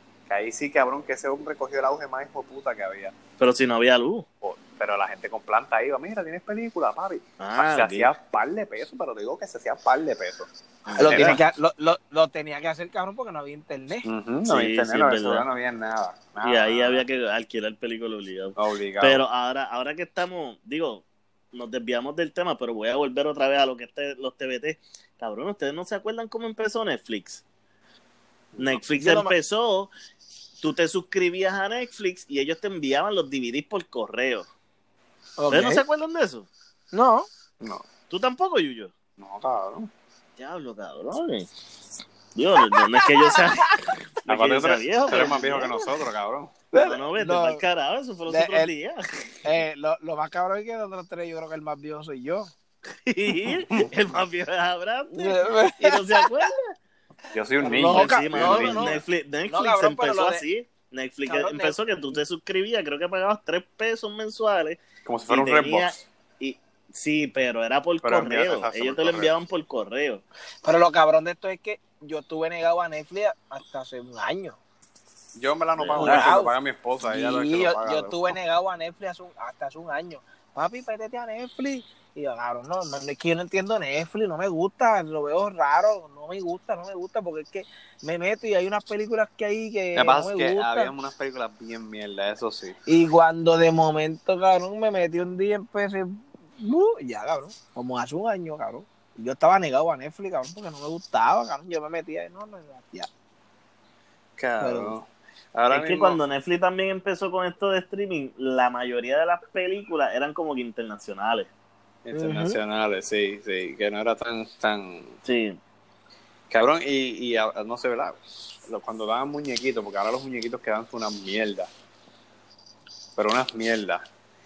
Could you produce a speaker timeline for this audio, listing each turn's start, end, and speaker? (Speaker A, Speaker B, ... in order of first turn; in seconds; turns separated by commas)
Speaker A: 0.3-3.2, Speaker B: 3.4-4.3, Speaker A: 4.4-11.4, Speaker B: 7.4-8.1, Speaker B: 10.9-11.4, Speaker C: 11.0-14.1, Speaker A: 14.0-17.1, Speaker B: 14.5-15.4, Speaker B: 16.4-27.4, Speaker A: 18.6-19.2, Speaker A: 28.6-28.8, Speaker B: 28.6-29.9, Speaker C: 28.9-29.3, Speaker B: 30.6-34.5, Speaker C: 35.4-35.8, Speaker B: 35.5-36.5, Speaker C: 36.9-37.3, Speaker A: 37.6-37.9, Speaker B: 38.1-38.9, Speaker A: 39.2-39.9, Speaker B: 40.4-41.5, Speaker B: 42.4-45.9, Speaker C: 42.6-43.7, Speaker A: 44.3-46.5, Speaker C: 46.7-47.6, Speaker B: 46.8-49.1, Speaker C: 48.3-48.7, Speaker C: 49.4-52.5, Speaker B: 53.1-56.6, Speaker C: 55.1-56.5, Speaker A: 57.3-59.0, Speaker C: 57.6-60.4, Speaker B: 57.7-70.2, Speaker C: 61.3-61.8, Speaker A: 65.0-66.0, Speaker A: 68.0-69.3, Speaker C: 70.6-74.6, Speaker A: 75.4-78.4, Speaker B: 75.8-76.3, Speaker C: 75.9-76.5, Speaker C: 77.1-90.9, Speaker A: 89.9-92.8, Speaker C: 92.9-103.1, Speaker A: 104.4-106.2, Speaker C: 104.6-104.9, Speaker B: 105.7-111.5, Speaker A: 112.0-115.1, Speaker C: 112.1-112.6, Speaker B: 115.2-115.6, Speaker A: 116.5-121.7, Speaker A: 123.2-124.0